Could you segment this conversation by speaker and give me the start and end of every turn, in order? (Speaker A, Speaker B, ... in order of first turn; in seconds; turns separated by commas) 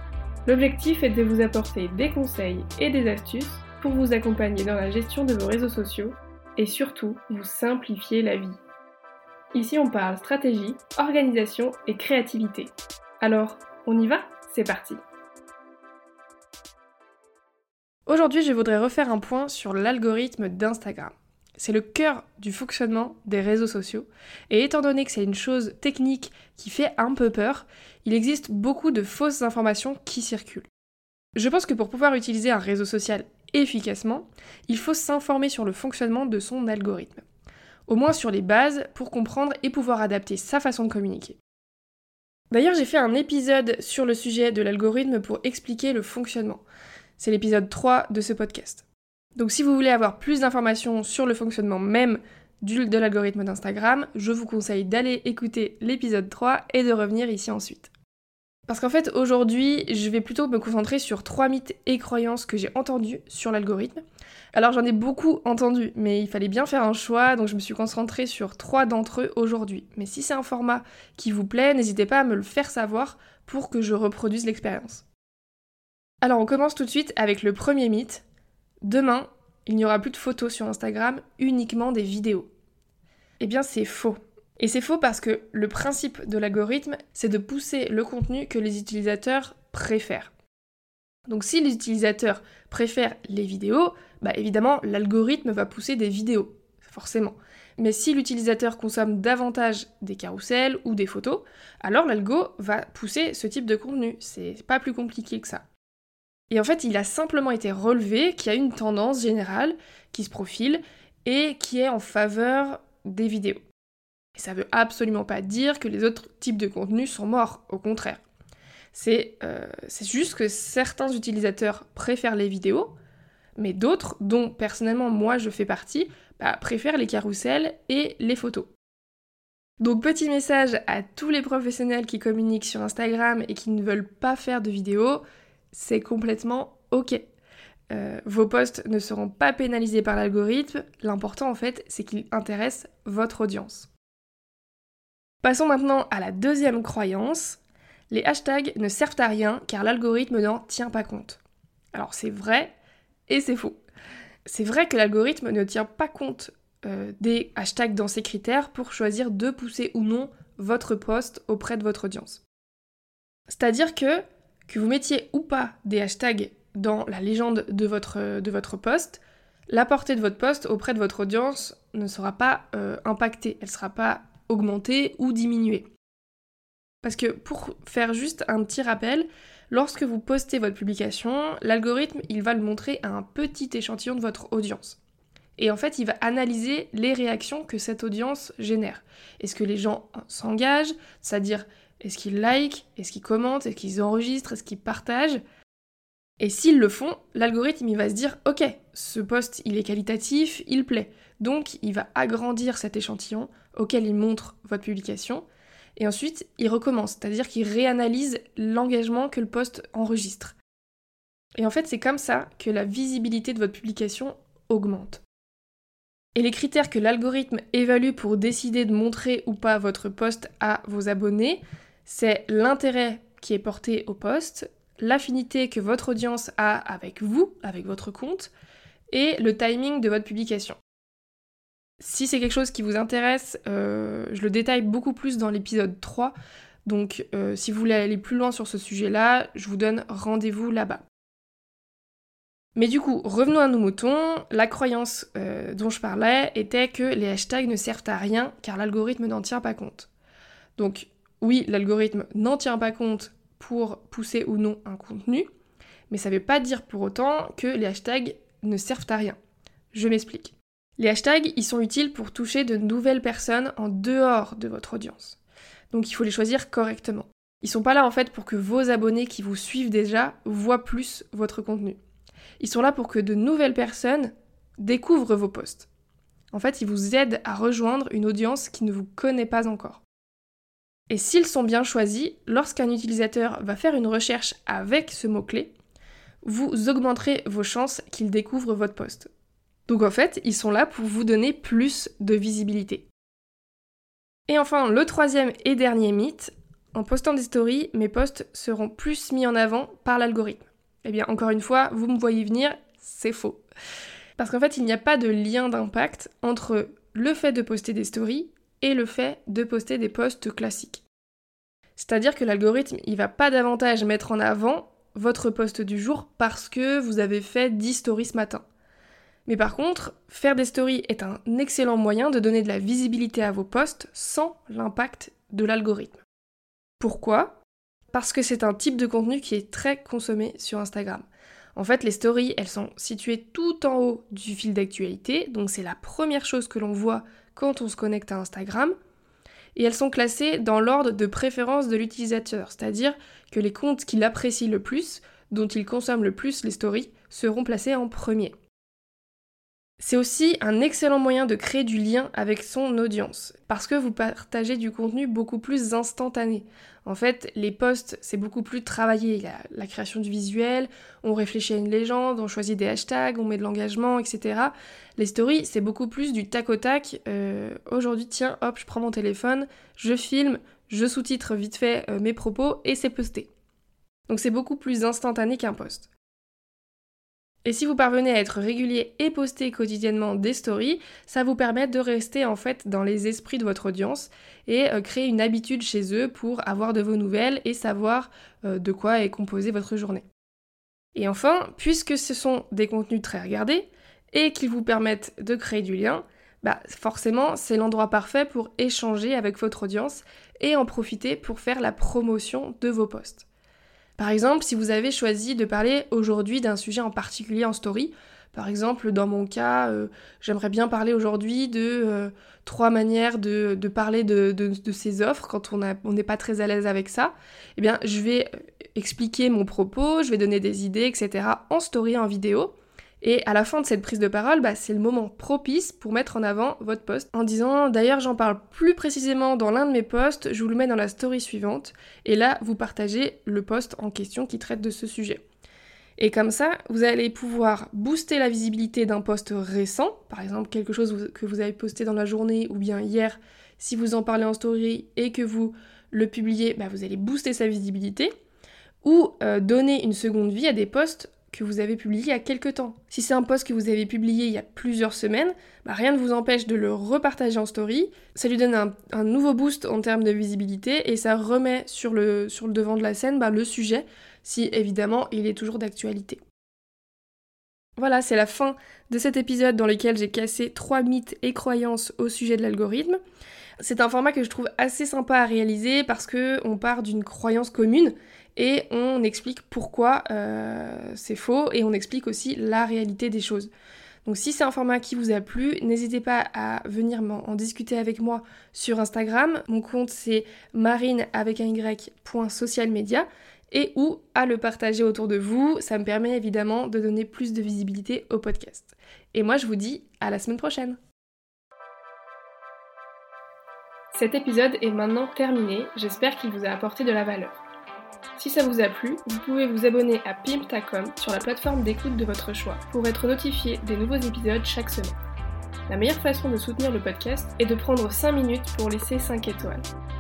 Speaker A: 0.5-8.6, Speaker A: 9.5-15.0, Speaker A: 18.1-30.7, Speaker A: 31.4-37.2, Speaker A: 37.9-41.4, Speaker A: 42.5-46.6, Speaker A: 47.2-57.9, Speaker A: 58.7-75.0, Speaker A: 76.2-78.2, Speaker A: 78.8-82.5, Speaker A: 83.4-90.3, Speaker A: 91.3-105.6, Speaker A: 106.5-113.7, Speaker A: 114.3-118.2, Speaker A: 118.9-122.9, Speaker A: 123.6-128.7, Speaker A: 129.8-137.2, Speaker A: 137.9-143.9, Speaker A: 145.4-151.4, Speaker A: 151.9-152.8, Speaker A: 153.3-153.8, Speaker A: 154.5-162.4, Speaker A: 163.5-175.9, Speaker A: 177.0-185.0, Speaker A: 185.6-195.4, Speaker A: 196.4-205.5, Speaker A: 206.0-210.6, Speaker A: 211.6-215.2, Speaker A: 216.3-228.5, Speaker A: 229.1-230.8, Speaker A: 232.0-236.3, Speaker A: 236.8-241.0, Speaker A: 242.8-250.1, Speaker A: 250.8-255.5, Speaker A: 256.1-259.4, Speaker A: 259.9-265.4, Speaker A: 265.9-272.0, Speaker A: 272.6-275.9, Speaker A: 276.5-280.0, Speaker A: 281.1-285.7, Speaker A: 286.4-289.3, Speaker A: 289.9-293.1, Speaker A: 294.5-303.6, Speaker A: 304.4-311.0, Speaker A: 312.0-318.6, Speaker A: 319.5-326.2, Speaker A: 327.0-327.6, Speaker A: 328.1-338.9, Speaker A: 339.8-348.5, Speaker A: 350.0-373.5, Speaker A: 374.3-376.1, Speaker A: 377.6-390.2, Speaker A: 391.1-403.5, Speaker A: 404.2-435.4, Speaker A: 436.2-448.3, Speaker A: 449.0-466.4, Speaker A: 468.0-473.2, Speaker A: 473.8-483.7, Speaker A: 484.2-501.0, Speaker A: 504.1-507.6, Speaker A: 508.4-515.2, Speaker A: 515.9-519.9